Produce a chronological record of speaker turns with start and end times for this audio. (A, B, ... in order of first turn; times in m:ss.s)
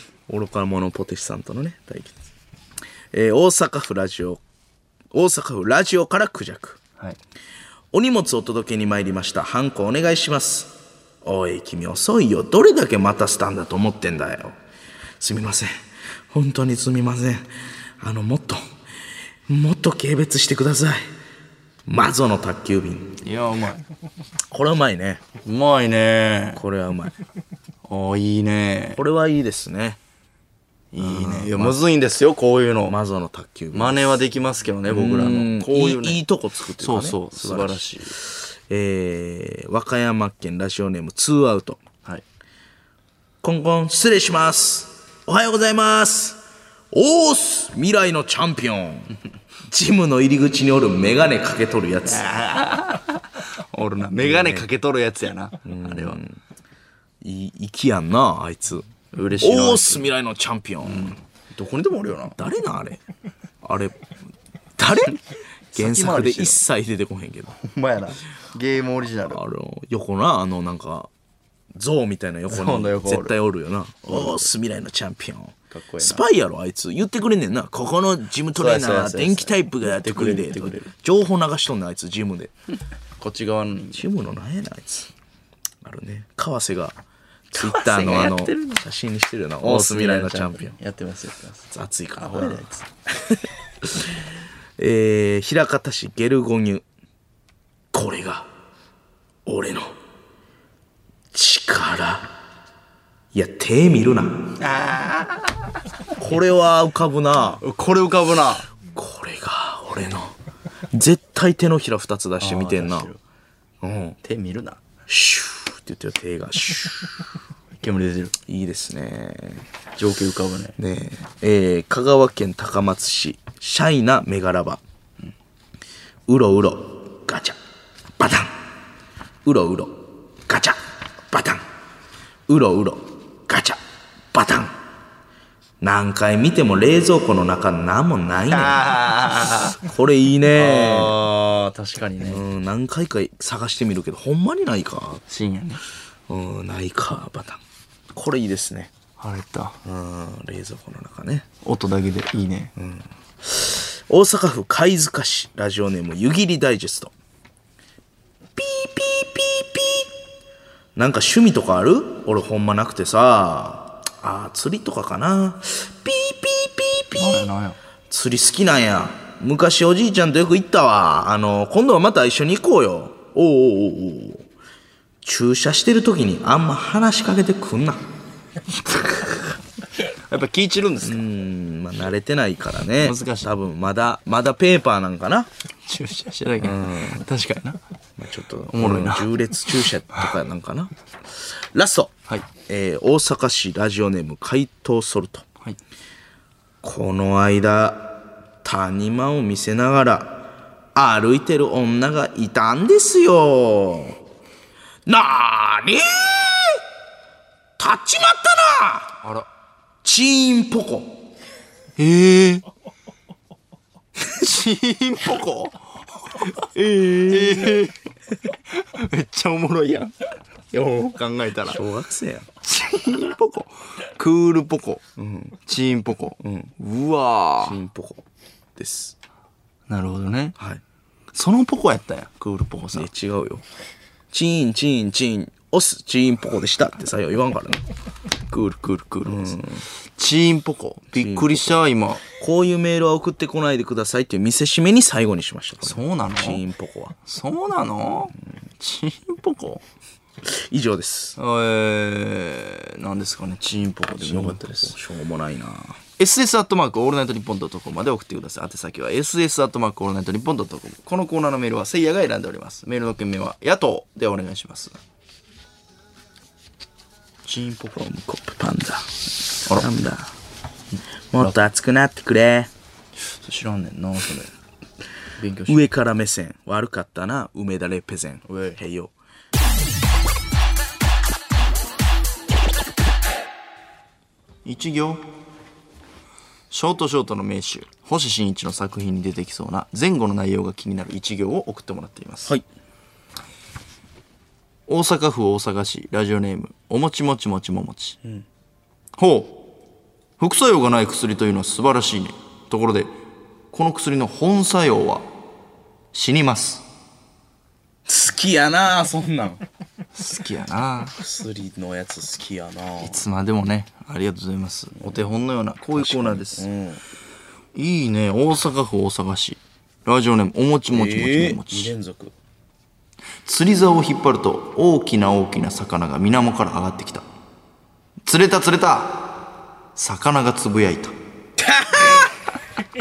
0:00.3-0:02.2 A
0:03.1-0:04.4 A
0:05.1-0:06.8 A
0:07.9-0:14.6 A
0:15.2-0:17.5 A
0:18.0-0:18.6 A
0:19.5-0:21.1 A
0:21.9-0:23.2 A
0:23.2-0:23.8 B
0:24.5-0:25.2 A
0:25.4-0:26.6 B
0:26.6-0:27.2 A
0:27.9-0:29.0 B
0:28.9-0:30.0 A
0:30.9-0:33.0 B
0:31.0-0:31.8 A
0:32.9-0:34.1 A
0:33.7-0:36.2 B
0:34.9-0:41.8 A
0:36.8-0:38.2 B
0:43.4-0:46.4 A
0:46.9-0:49.1 A
0:49.7-0:52.3 A
0:52.1-0:56.2 B
0:54.2-0:54.6 A
0:55.6-0:56.4 A
0:57.2-0:58.9 A
0:59.1-1:00.1 B
0:59.4-1:01.2 A
1:00.8-1:02.4 B
1:02.3-1:03.0 A
1:03.6-1:04.0 A
1:04.8-1:05.2 A
1:05.7-1:06.6 B
1:05.7-1:07.6 A
1:07.6-1:09.4 B
1:09.3-1:11.1 A
1:11.7-1:22.5 A
1:12.5-1:13.4 B
1:14.1-1:14.5 B
1:15.7-1:16.2 B
1:18.5-1:20.9 B
1:23.2-1:24.0 B
1:23.9-1:25.1 A
1:25.8-1:27.0 A
1:27.5-1:30.8 A
1:27.5-1:28.8 B
1:29.6-1:32.8 B
1:31.7-1:34.1 A
1:34.8-1:36.8 A
1:37.9-1:38.5 A
1:39.4-1:39.9 A
1:41.3-1:42.3 A
1:43.3-1:44.5 A
1:44.6-1:45.6 B
1:46.2-1:47.6 A
1:47.6-1:48.7 B
1:48.9-1:50.3 A
1:50.9-1:53.1 A
1:52.4-1:53.2 B
1:53.8-1:54.2 A
1:54.2-1:54.8 B
1:55.1-1:57.1 A
1:57.8-1:58.3 B
1:58.5-1:59.6 A
2:00.0-2:00.8 B
2:00.8-2:04.8 A
2:06.3-2:07.6 A
2:08.2-2:08.5 A
2:09.4-2:11.6 A
2:12.5-2:13.8 A
2:14.3-2:14.7 A
2:15.8-2:18.9 A
2:18.5-2:19.8 B
2:19.8-2:21.2 A
2:20.5-2:22.4 B
2:22.2-2:25.2 A
2:25.3-2:25.8 B
2:26.3-2:27.6 A
2:28.1-2:28.9 A
2:29.2-2:29.8 B
2:29.8-2:31.4 A
2:31.6-2:32.7 B
2:32.8-2:37.1 A
2:38.6-2:40.1 A
2:41.0-2:47.4 A
2:47.2-2:47.8 B
2:48.1-2:54.4 A
2:55.2-2:58.0 A
2:58.8-2:59.6 B
3:00.3-3:01.2 B
3:01.0-3:05.5 A
3:03.0-3:03.5 B
3:05.9-3:07.8 B
3:06.6-3:07.2 A
3:08.2-3:12.2 A
3:08.7-3:09.3 B
3:12.7-3:15.4 A
3:16.8-3:20.4 A
3:20.9-3:24.2 A
3:25.1-3:26.8 A
3:27.8-3:29.1 A
3:30.0-3:31.2 A
3:32.0-3:32.6 B
3:34.2-3:36.5 B
3:36.5-3:37.8 A
3:37.2-3:38.0 B
3:38.7-3:40.1 B
3:40.7-3:41.8 B
3:41.6-3:42.5 A
3:42.6-3:45.0 B
3:45.2-3:45.6 A
3:45.6-3:47.8 B
3:46.4-3:46.7 A
3:47.6-3:48.2 A
3:48.8-3:49.2 A
3:49.9-3:50.6 B
3:51.3-3:53.1 B
3:52.9-3:53.6 A
3:54.3-3:57.8 A
3:58.5-3:59.6 B
3:59.2-3:59.8 A
4:00.2-4:02.2 B
4:01.1-4:01.7 A
4:02.3-4:07.2 A
4:05.8-4:06.6 B
4:07.2-4:09.8 B
4:10.4-4:11.4 A
4:11.4-4:15.0 B
4:14.2-4:16.0 A
4:16.2-4:25.0 B
4:27.4-4:28.1 B
4:28.0-4:29.1 A
4:29.7-4:30.3 A
4:31.0-4:31.5 B
4:31.3-4:32.7 A
4:33.3-4:34.5 B
4:35.4-4:35.8 B
4:35.7-4:39.1 A
4:38.5-4:38.8 B
4:44.6-4:45.2 B
4:46.7-4:52.5 B
4:54.9-4:58.2 B
4:59.2-4:59.6 B
5:00.4-5:03.1 B
5:03.7-5:05.2 B
5:06.1-5:06.8 B
5:08.0-5:09.6 A
5:10.1-5:11.2 B
5:11.2-5:13.2 A
5:13.0-5:16.6 B
5:16.0-5:17.0 A
5:17.7-5:21.9 B
5:20.9-5:22.3 A
5:23.4-5:27.2 B
5:28.2-5:29.4 B
5:30.0-5:31.1 B
5:31.6-5:32.3 A